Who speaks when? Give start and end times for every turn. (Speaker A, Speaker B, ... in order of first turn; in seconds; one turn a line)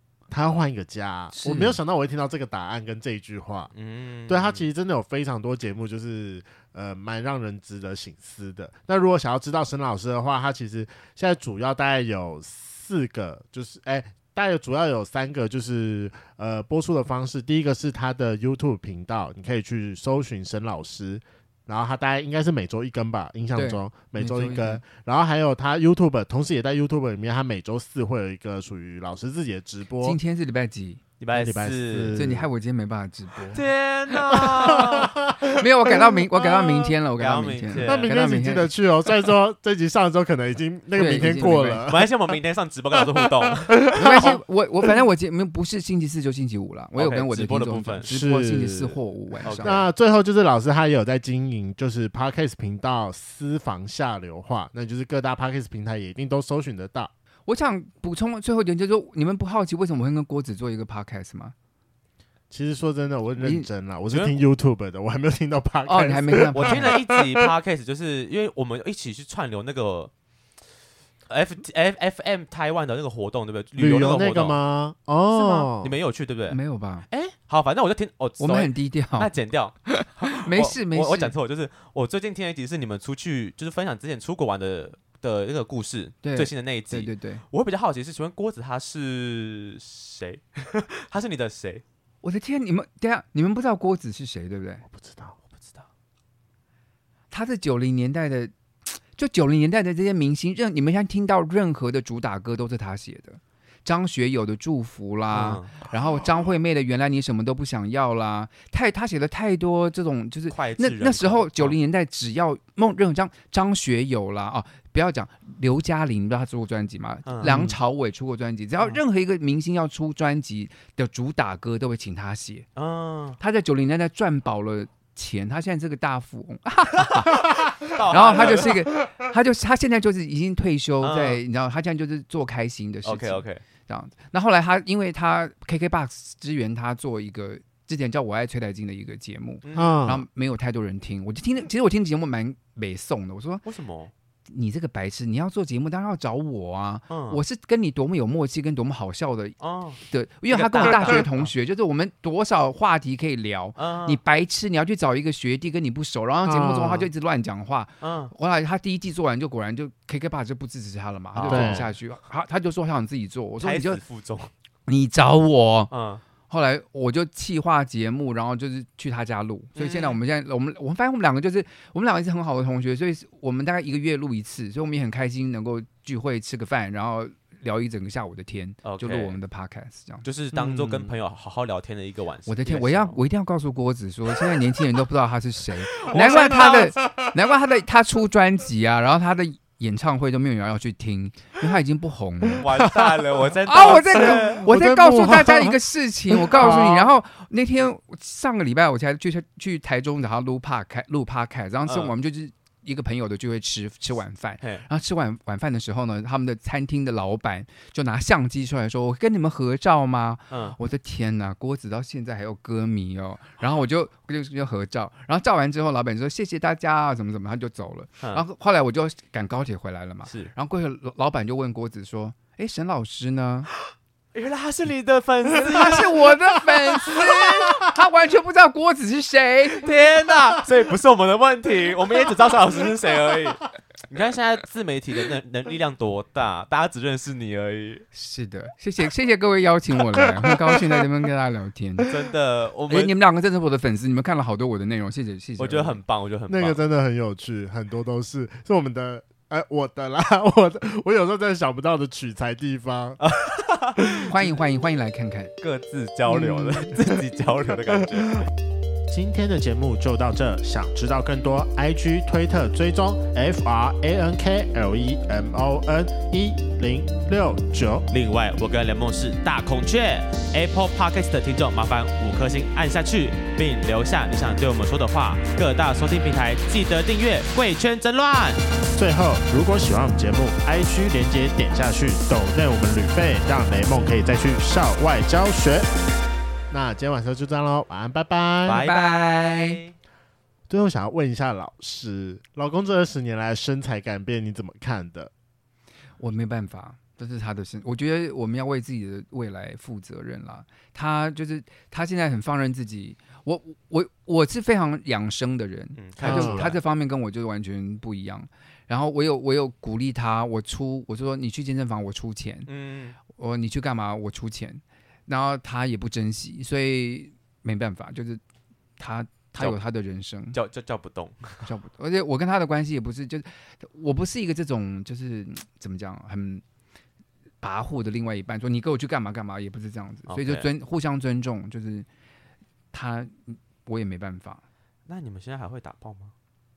Speaker A: 0.3-3.7
Speaker B: 1.3-1.8
Speaker C: 3.7-4.6
Speaker A: 4.3-30.2
Speaker B: 23.6-24.8
Speaker B: 30.0-31.0
Speaker C: 31.2-32.2
Speaker A: 31.3-32.5
Speaker B: 32.1-38.7
Speaker C: 33.5-35.1
Speaker A: 34.3-36.8
Speaker C: 37.2-38.1
Speaker A: 37.8-42.4
Speaker B: 40.9-41.9
Speaker C: 41.9-44.2
Speaker A: 43.8-44.4
Speaker B: 43.9-49.9
Speaker C: 47.0-48.1
Speaker A: 48.1-49.0
Speaker C: 49.4-49.8
Speaker A: 49.5-57.1
Speaker B: 57.5-61.5
Speaker A: 62.5-67.5
Speaker B: 63.4-63.7
Speaker C: 64.1-64.4
Speaker B: 65.8-67.0
Speaker C: 66.5-70.1
Speaker C: 71.3-74.6
Speaker A: 73.8-75.9
Speaker C: 75.3-91.8
Speaker B: 76.5-77.0
Speaker B: 78.4-79.3
Speaker B: 79.9-81.3
Speaker B: 86.2-87.4
Speaker B: 92.2-94.8
Speaker A: 94.9-95.4
Speaker C: 95.5-95.9
Speaker B: 97.3-122.7
Speaker C: 105.3-105.7
Speaker C: 110.5-111.8
Speaker C: 117.2-117.5
Speaker A: 117.4-117.8
Speaker C: 122.8-123.4
Speaker B: 123.4-143.6
Speaker C: 127.1-128.8
Speaker A: 128.3-128.7
Speaker C: 131.0-131.4
Speaker C: 133.0-133.6
Speaker C: 139.6-140.0
Speaker A: 139.7-140.2
Speaker C: 143.6-144.1
Speaker B: 144.5-164.0
Speaker C: 147.1-147.4
Speaker C: 149.6-151.5
Speaker C: 153.8-154.2
Speaker A: 156.4-157.1
Speaker C: 158.0-158.3
Speaker C: 161.3-161.9
Speaker A: 161.5-161.9
Speaker C: 163.6-164.5
Speaker B: 164.9-165.9
Speaker C: 165.9-166.2
Speaker B: 166.5-180.2
Speaker C: 169.8-170.2
Speaker C: 178.8-179.4
Speaker C: 180.2-183.2
Speaker A: 180.5-181.1
Speaker B: 182.5-192.8
Speaker C: 185.9-187.1
Speaker C: 192.6-194.6
Speaker B: 193.6-223.7
Speaker A: 194.0-195.8
Speaker A: 196.3-197.1
Speaker C: 201.9-202.1
Speaker C: 204.6-204.8
Speaker C: 210.5-210.8
Speaker C: 220.3-220.5
Speaker C: 224.3-227.3
Speaker B: 225.6-229.8
Speaker C: 229.8-238.1
Speaker B: 238.1-242.2
Speaker C: 242.1-243.2
Speaker B: 242.9-246.0
Speaker C: 245.6-246.8
Speaker A: 246.5-253.2
Speaker C: 253.2-254.6
Speaker B: 254.2-255.5
Speaker C: 255.6-258.5
Speaker B: 256.3-256.9
Speaker A: 259.1-268.1
Speaker C: 268.1-278.6
Speaker A: 279.0-285.9
Speaker A: 286.7-288.8
Speaker C: 288.6-289.9
Speaker B: 288.8-289.8
Speaker A: 290.7-295.3
Speaker B: 296.2-312.7
Speaker C: 305.9-306.8
Speaker A: 306.2-306.8
Speaker C: 312.7-313.2
Speaker B: 313.3-318.4
Speaker B: 319.0-320.6
Speaker C: 320.5-321.7
Speaker B: 321.6-326.6
Speaker B: 327.6-332.1
Speaker C: 330.3-330.7
Speaker B: 332.9-334.6
Speaker C: 335.1-336.3